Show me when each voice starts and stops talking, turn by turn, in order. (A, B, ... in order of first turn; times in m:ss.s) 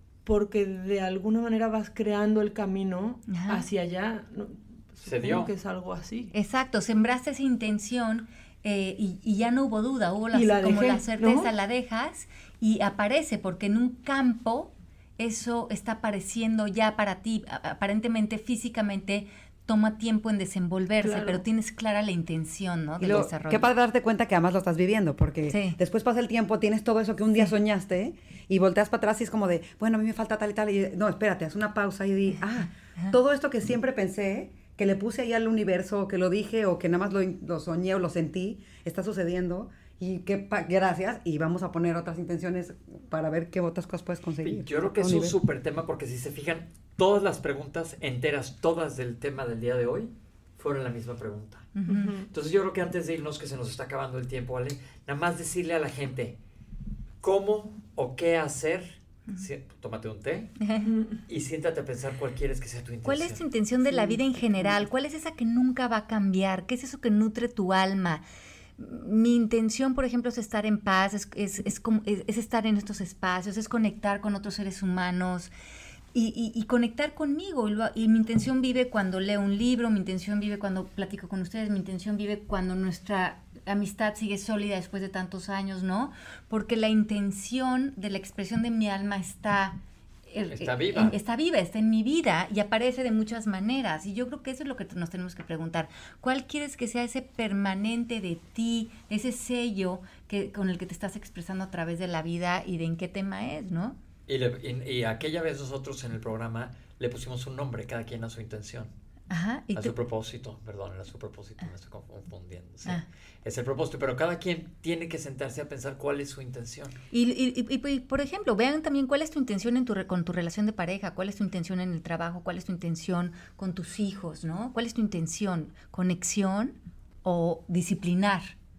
0:00.2-0:06.3 A
0:03.3-0:03.6 B
0:05.0-0:05.5 C
0:06.3-0:23.7 B
0:10.3-0:11.5 A
0:21.0-0:21.4 A
0:23.0-0:45.4 D
0:25.5-0:25.8 B
0:44.4-0:51.8 C
0:51.8-0:52.1 B
0:51.9-0:52.3 A
0:52.3-0:56.4 C
0:57.2-1:00.6 C
1:00.6-1:00.9 B
1:00.8-1:01.2 A
1:01.3-1:03.4 C
1:03.0-1:08.2 B
1:03.9-1:04.8 D
1:08.8-1:15.5 B
1:16.1-1:44.0 B
1:30.5-1:31.2 C
1:44.3-1:48.9 C
1:49.3-1:49.9 B
1:49.7-1:57.0 C
1:57.1-2:08.5 B